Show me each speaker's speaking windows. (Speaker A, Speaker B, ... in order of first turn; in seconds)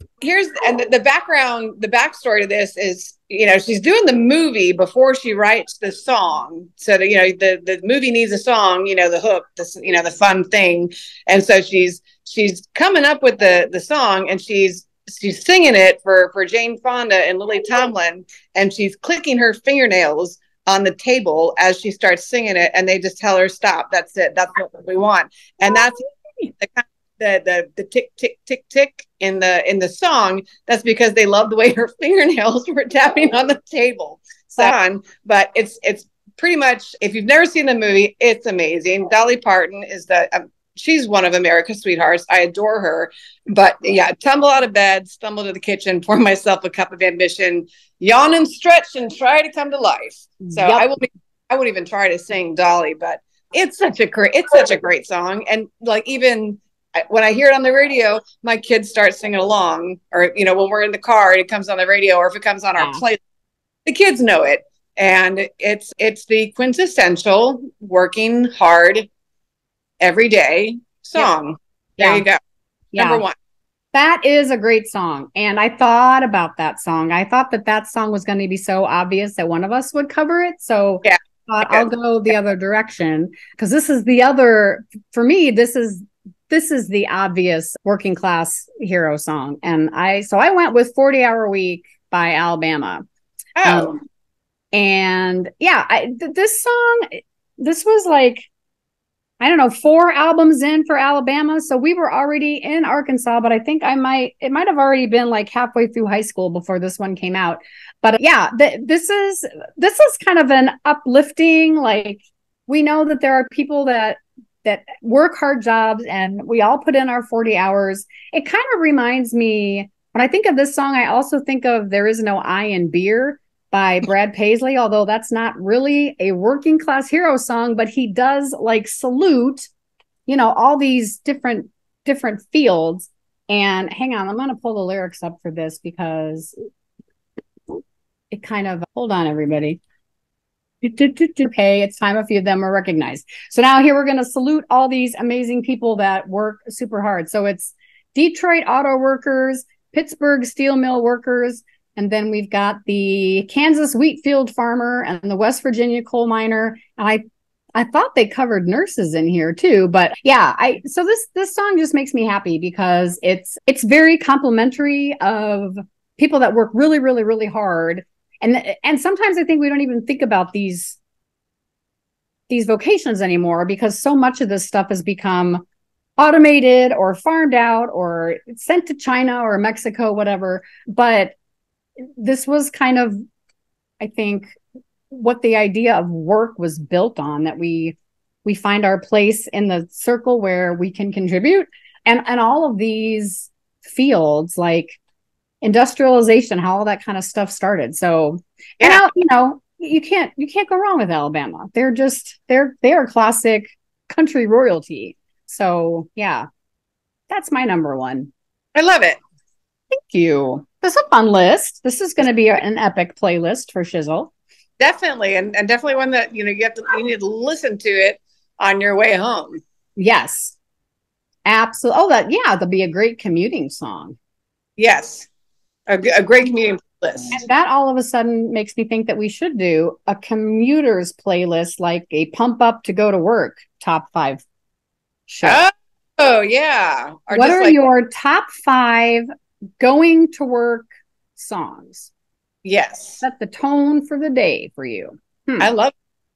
Speaker A: 0.2-63.2, 63.9-69.1, 70.0-72.4, 73.0-73.3, 93.5-94.0, 208.7-209.2, 214.8-219.6, 224.8-225.3, 225.9-227.4, 235.4-237.8, 242.6-243.2, 245.6-245.9
Speaker B: 50.4-50.9, 62.8-63.0, 72.0-72.2, 72.9-73.2, 73.9-93.0, 93.6-94.0, 94.7-98.5, 99.4-129.7, 130.3-136.5, 138.3-139.8, 140.8-157.2, 157.7-171.0, 172.5-175.6, 176.2-181.3, 182.2-183.2, 184.0-184.6, 185.1-195.0, 195.6-206.4, 207.3-208.3, 210.0-214.3, 220.0-220.5, 221.4-224.2, 227.3-234.4, 235.3-235.6, 237.3-239.2, 239.8-242.1, 243.2-245.7